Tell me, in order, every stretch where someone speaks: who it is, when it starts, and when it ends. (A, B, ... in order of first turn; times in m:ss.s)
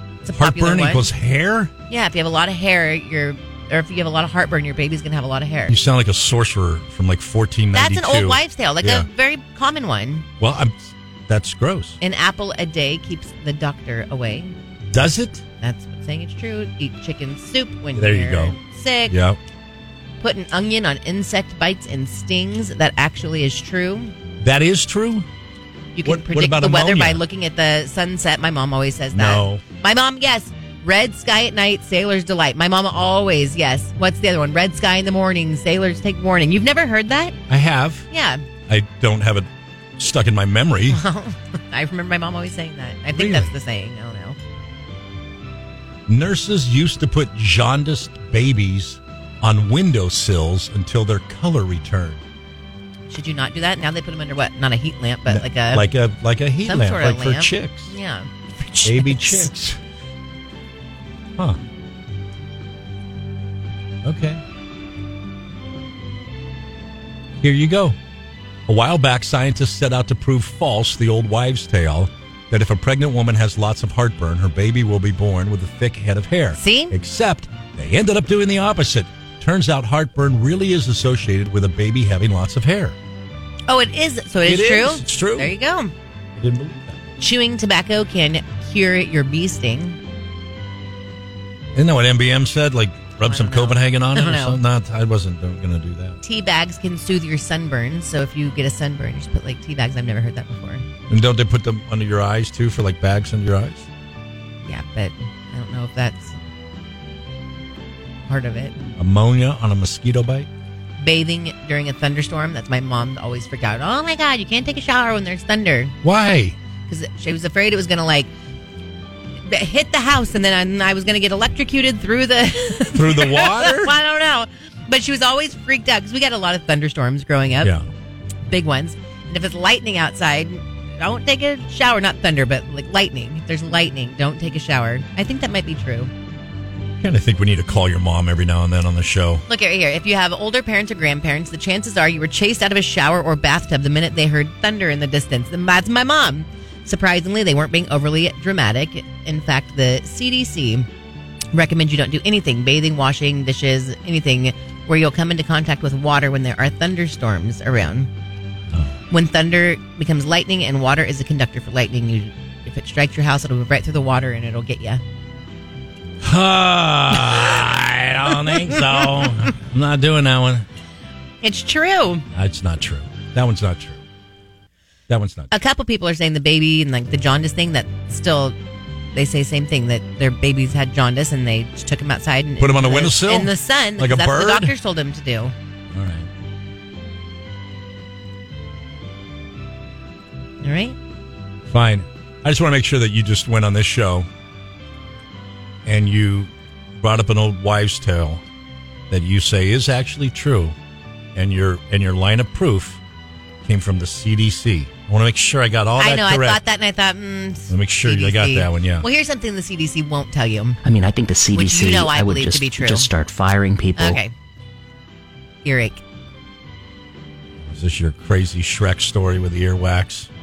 0:00.2-0:01.1 A
0:00.4-0:01.7 B
0:01.9-0:05.8 A
0:05.7-0:09.1 B
0:07.7-0:10.3 A
0:10.4-0:12.0 B
0:12.0-0:14.6 A
0:14.9-0:15.4 B
0:15.6-0:19.2 A
0:18.0-0:18.6 B
0:19.1-0:19.4 B
0:20.2-0:24.1 A
0:24.4-0:25.3 B
0:26.0-0:37.4 A
0:26.0-0:27.2 B
0:29.1-0:29.6 B
0:37.5-0:38.1 B
0:38.1-0:38.4 A
0:38.7-0:41.0 B
0:40.9-0:44.4 A
0:43.1-0:43.5 B
0:46.1-0:52.2 B
0:53.1-0:55.9 A
0:55.3-0:57.9 B
0:56.6-0:59.5 A
0:58.8-0:59.8 B
1:04.0-1:04.4 B
1:07.4-1:08.0 B
1:08.7-1:23.0 B
1:16.6-1:17.0 A
1:23.7-1:25.9 A
1:24.4-1:25.5 B
1:26.4-1:27.1 B
1:27.2-1:30.0 A
1:31.8-1:36.2 B
1:33.2-1:34.6 A
1:36.2-1:40.8 A
1:41.1-1:43.9 B
1:44.6-1:46.4 A
1:48.3-1:48.8 A
1:49.0-1:50.5 B
1:51.0-1:56.0 A
1:56.0-1:56.6 B
1:56.9-1:58.3 A
1:59.4-2:07.7 A
2:02.9-2:04.0 B
2:08.5-2:16.1 A
2:17.0-2:19.4 B
2:19.5-2:30.9 A
2:31.5-2:38.1 A
2:39.1-2:45.0 A
2:46.2-2:50.7 B
2:51.4-2:52.3 A
2:52.3-2:54.0 B
2:55.1-2:55.5 B
2:55.5-2:58.6 A
2:59.1-3:05.5 A
3:02.6-3:04.7 B
3:05.9-3:06.3 B
3:10.6-3:11.0 A
3:11.7-3:14.3 B
3:15.8-3:18.4 B
3:19.1-3:20.8 B
3:21.4-3:23.0 B
3:23.6-3:26.6 B
3:26.0-3:30.8 A
3:27.7-3:29.1 B
3:30.8-3:34.2 C
3:31.5-3:33.1 A
3:34.0-3:34.3 A
3:35.6-3:36.0 A
3:37.6-3:40.3 B